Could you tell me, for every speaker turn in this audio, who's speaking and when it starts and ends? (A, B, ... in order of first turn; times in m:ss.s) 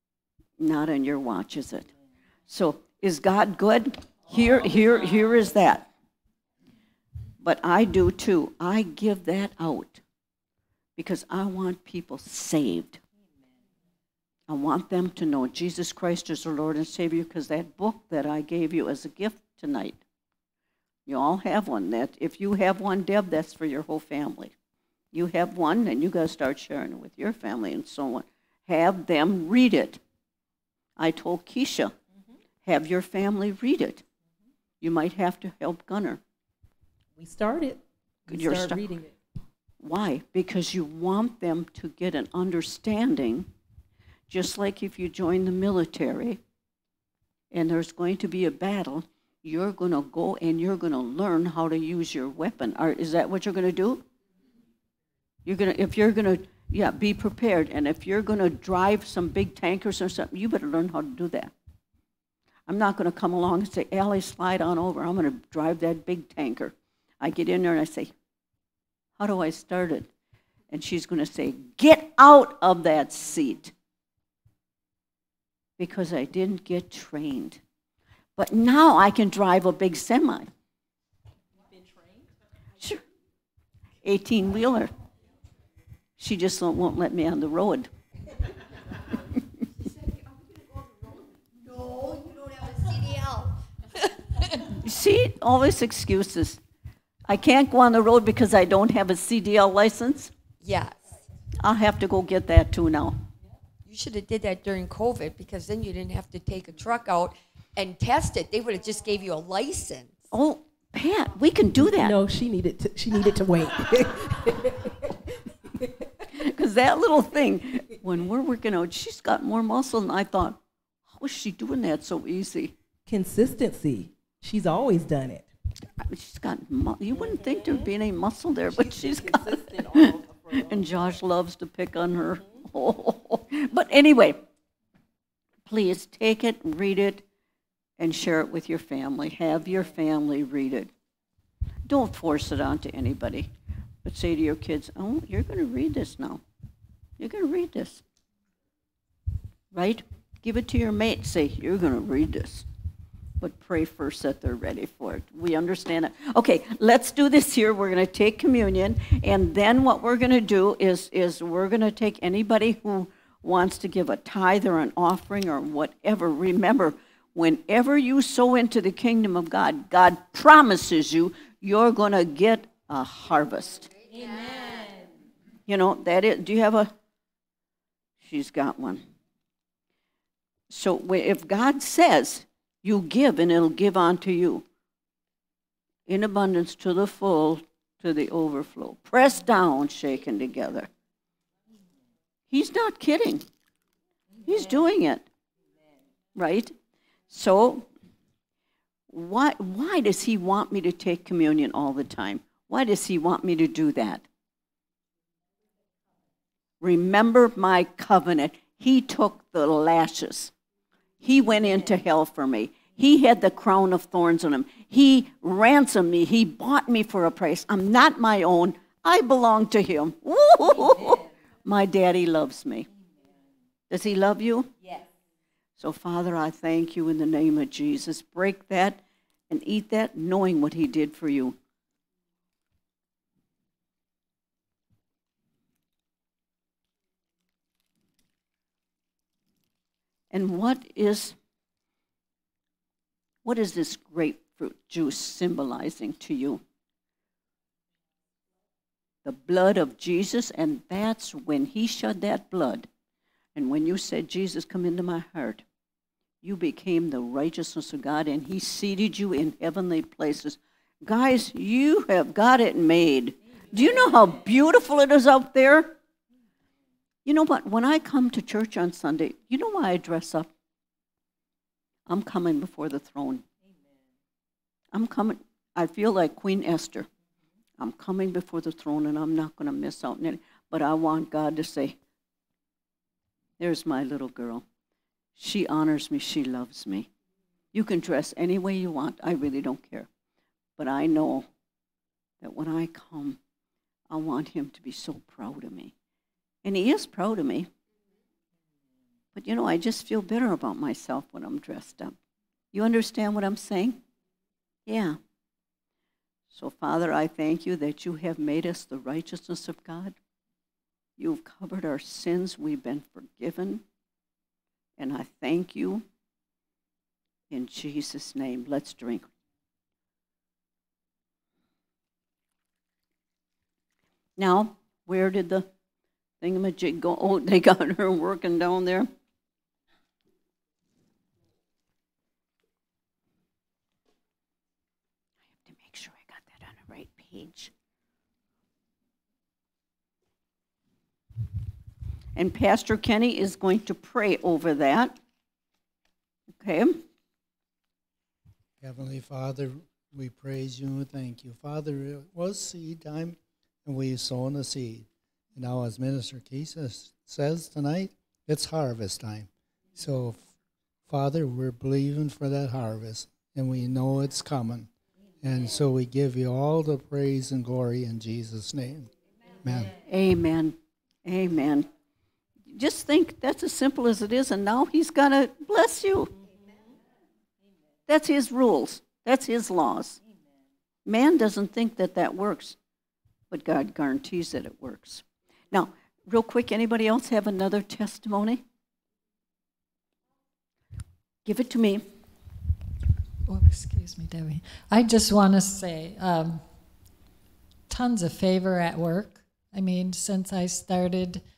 0:00.6-0:01.9 A
0:02.5-0:05.9 A
0:07.4-0:10.0 A
0:11.0-0:13.0 A
0:14.5-0:20.0 A
0:21.1-0:24.5 A
0:25.1-0:30.0 A
0:31.0-0:31.9 A
0:32.6-0:34.0 A
0:34.8-0:36.2 A
0:37.2-0:39.1 B
0:38.3-0:38.8 A
0:39.8-0:43.5 A
0:44.3-0:46.4 A
0:47.5-0:54.0 A
0:55.4-1:01.5 A
1:02.7-1:08.1 A
1:09.2-1:10.1 A
1:10.7-1:13.7 A
1:15.8-1:17.6 A
1:18.4-1:20.5 A
1:24.0-1:24.9 A
1:26.2-1:27.9 A
1:31.7-1:33.5 C
1:34.7-1:36.6 A
1:37.3-1:40.3 A
1:40.6-1:41.0 C
1:41.6-1:43.2 A
1:43.8-1:50.3 C
1:50.3-1:52.2 A
1:51.9-1:56.1 B
1:56.3-2:02.7 A
2:03.1-2:05.5 B
2:06.0-2:14.4 A
2:08.7-2:11.1 B
2:15.7-2:17.2 A
2:18.0-2:20.9 A
2:21.9-2:23.5 A
2:24.0-2:26.4 A
2:27.2-2:28.0 A
2:29.7-2:32.7 A
2:33.4-2:54.0 A
2:55.7-2:56.9 A
2:58.2-2:59.0 A
3:00.7-3:04.6 A
3:06.1-3:10.9 A
3:12.5-3:13.4 A
3:14.4-3:15.3 A
3:16.4-3:16.8 A
3:17.3-3:17.9 A
3:19.1-3:24.3 A
3:26.8-3:30.5 A
3:31.2-3:42.9 A
3:43.9-3:44.7 A
3:45.8-3:51.6 A
4:00.3-4:01.4 A
4:03.4-4:06.6 A
4:09.2-4:12.9 A
4:13.6-4:15.6 A
4:16.4-4:26.0 A
4:27.3-4:30.5 A
4:32.1-4:33.4 A
4:34.9-4:37.1 A
4:37.8-4:42.0 A
4:43.6-4:44.6 A
4:45.4-4:47.1 A
4:47.7-4:50.1 A
4:50.8-4:51.5 A
4:52.4-4:53.4 A
4:54.1-4:55.9 A
4:56.6-4:57.7 A
4:59.4-5:02.2 A
5:02.7-5:04.0 A
5:04.9-5:05.2 A
5:06.5-5:10.2 A
5:11.2-5:13.8 A
5:15.0-5:16.0 A
5:17.5-5:19.3 A
5:24.4-5:25.7 A
5:26.4-5:29.1 A
5:35.5-5:37.7 A
5:42.4-5:45.2 A
5:46.6-5:47.0 A
5:48.8-6:00.5 D
6:01.1-6:04.9 D
6:05.4-6:09.1 D
6:09.6-6:09.9 D
6:10.0-6:11.9 A
6:12.7-6:16.3 A
6:18.1-6:20.2 A
6:21.1-6:22.8 A
6:23.5-6:28.6 A
6:31.4-6:32.0 A
6:33.5-6:36.6 E
6:37.9-6:41.4 E